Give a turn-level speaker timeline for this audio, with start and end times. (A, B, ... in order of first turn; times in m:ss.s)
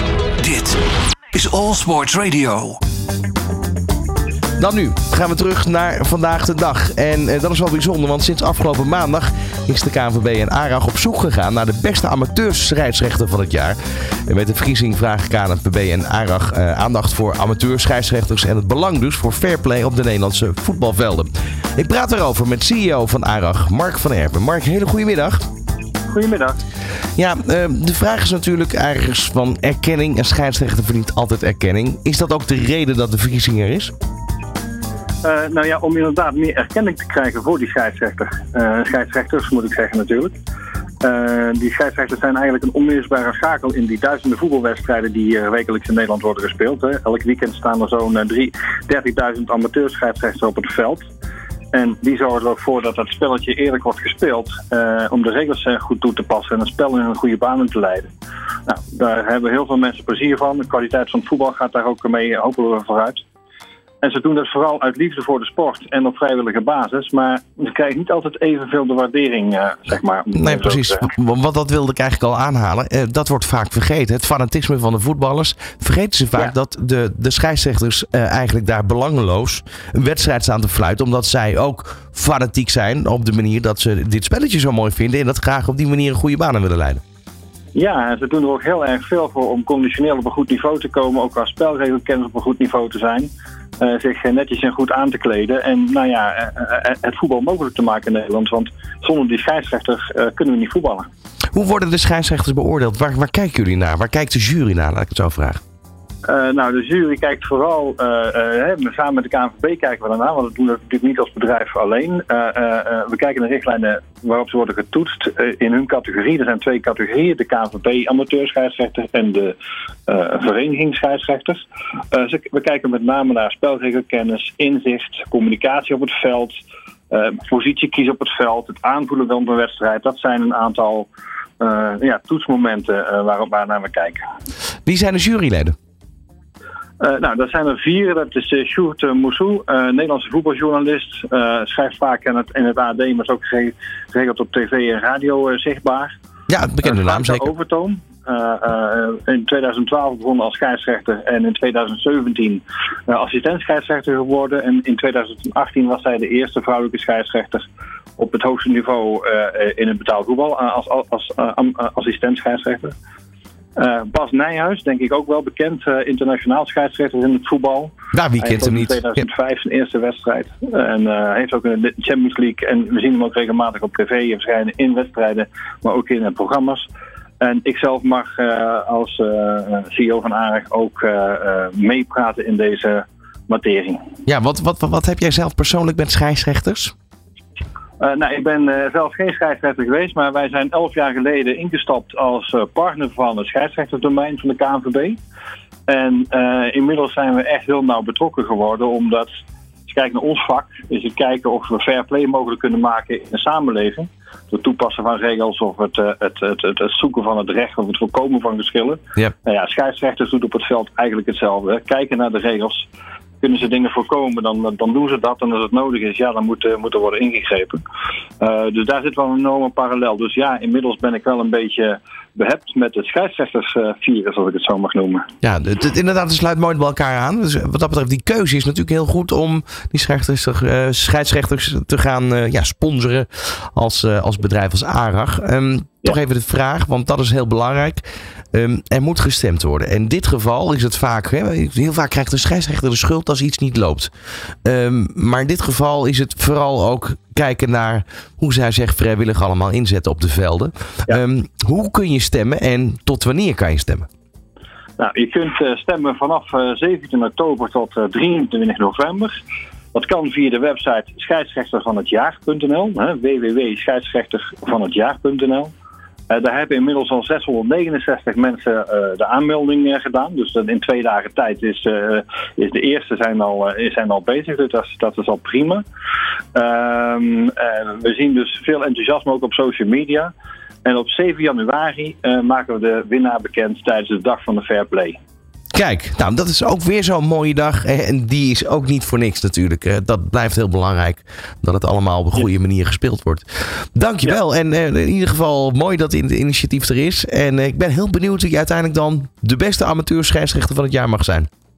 0:00.4-0:00.8 A
0:01.3-0:02.8 A
0:04.6-0:25.4 B
0:26.1-0:26.6 C
0:27.2-0:33.9 B
0:35.2-0:40.3 C
0:41.0-0:51.1 C
0:51.7-0:58.1 C
0:58.7-1:03.2 C
1:04.0-1:11.1 C
1:10.3-1:27.0 B
1:27.8-1:41.1 C
1:41.5-1:45.6 B
1:46.2-1:59.6 C
2:00.1-2:06.6 C
2:07.1-2:11.1 C
2:11.6-2:14.2 C
2:14.9-2:15.8 B
2:17.0-2:26.2 C
2:26.5-2:27.5 B
2:26.8-2:43.0 C
2:43.8-2:56.9 C
2:48.1-2:49.2 B
2:57.4-3:04.0 C
3:04.3-3:06.9 B
3:08.0-3:15.2 C
3:15.9-3:19.3 C
3:19.9-3:32.9 C
3:33.4-3:37.8 C
3:38.4-3:45.3 C
3:45.4-3:58.0 B
3:58.5-4:04.1 B
4:04.6-4:14.1 B
4:15.0-4:19.4 C
4:19.9-4:25.7 C
4:26.3-4:35.8 C
4:36.5-4:40.3 C
4:40.8-4:45.2 C
4:45.7-5:01.5 B